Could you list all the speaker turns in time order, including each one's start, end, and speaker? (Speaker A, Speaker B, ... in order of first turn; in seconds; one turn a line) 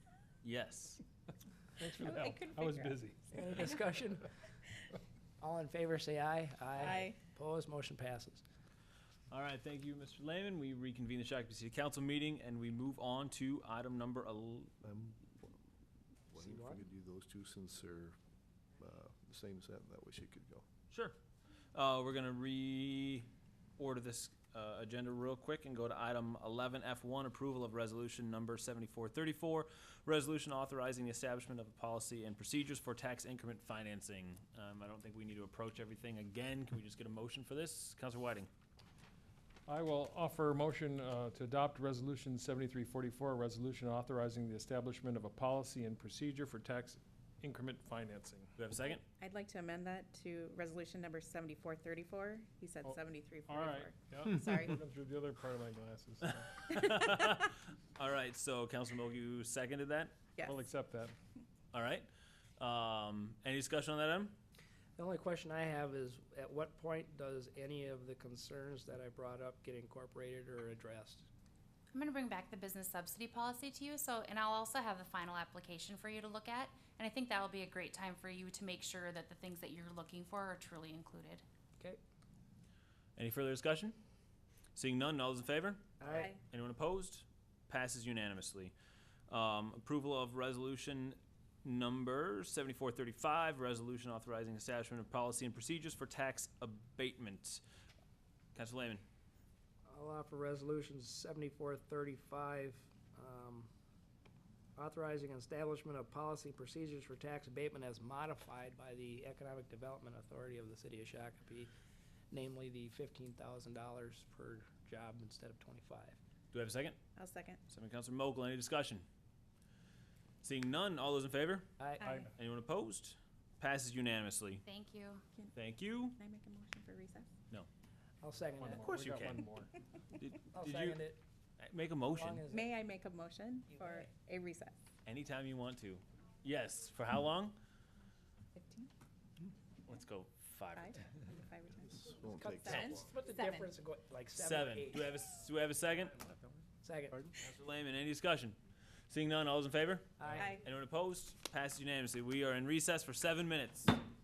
Speaker A: 0.4-1.0
Speaker B: 1.8-3.5
Speaker C: 1.9-3.0
Speaker D: 3.3-4.3
Speaker D: 5.4-8.4
Speaker C: 6.8-7.2
Speaker A: 9.3-14.7
Speaker E: 14.8-15.5
Speaker E: 16.3-18.2
Speaker D: 16.4-16.8
Speaker E: 18.8-20.7
Speaker A: 20.9-21.2
Speaker A: 21.7-38.5
Speaker B: 39.7-48.5
Speaker A: 48.6-49.0
Speaker C: 48.9-54.8
Speaker B: 52.8-56.6
Speaker C: 56.6-57.2
Speaker A: 56.6-60.1
Speaker C: 60.4-60.6
Speaker B: 60.5-61.1
Speaker A: 61.7-64.4
Speaker D: 65.0-71.3
Speaker F: 71.9-81.4
Speaker A: 83.2-84.0
Speaker A: 84.8-88.7
Speaker D: 86.0-86.3
Speaker C: 86.1-86.4
Speaker A: 89.3-97.6
Speaker A: 98.5-99.0
Speaker D: 99.9-103.7
Speaker D: 104.8-111.7
Speaker D: 112.3-116.2
Speaker A: 116.5-117.0
Speaker C: 117.2-117.6
Speaker A: 117.7-119.1
Speaker A: 120.4-121.7
Speaker D: 121.8-122.2
Speaker C: 122.0-122.3
Speaker B: 122.0-122.3
Speaker A: 122.3-124.6
Speaker F: 124.7-125.2
Speaker A: 125.5-126.2
Speaker C: 126.1-127.3
Speaker D: 128.2-128.8
Speaker B: 128.6-129.7
Speaker A: 128.8-129.5
Speaker A: 130.2-131.0
Speaker D: 130.5-131.2
Speaker A: 131.6-132.5
Speaker D: 132.1-132.8
Speaker C: 132.5-134.8
Speaker D: 133.7-134.1
Speaker A: 135.1-137.6
Speaker C: 138.6-138.9
Speaker A: 139.9-141.1
Speaker C: 140.7-143.7
Speaker E: 141.8-143.1
Speaker D: 142.3-145.2
Speaker A: 142.7-143.0
Speaker A: 144.3-146.2
Speaker D: 146.8-147.3
Speaker A: 147.4-148.6
Speaker A: 149.1-154.0
Speaker D: 150.2-150.6
Speaker C: 150.4-150.7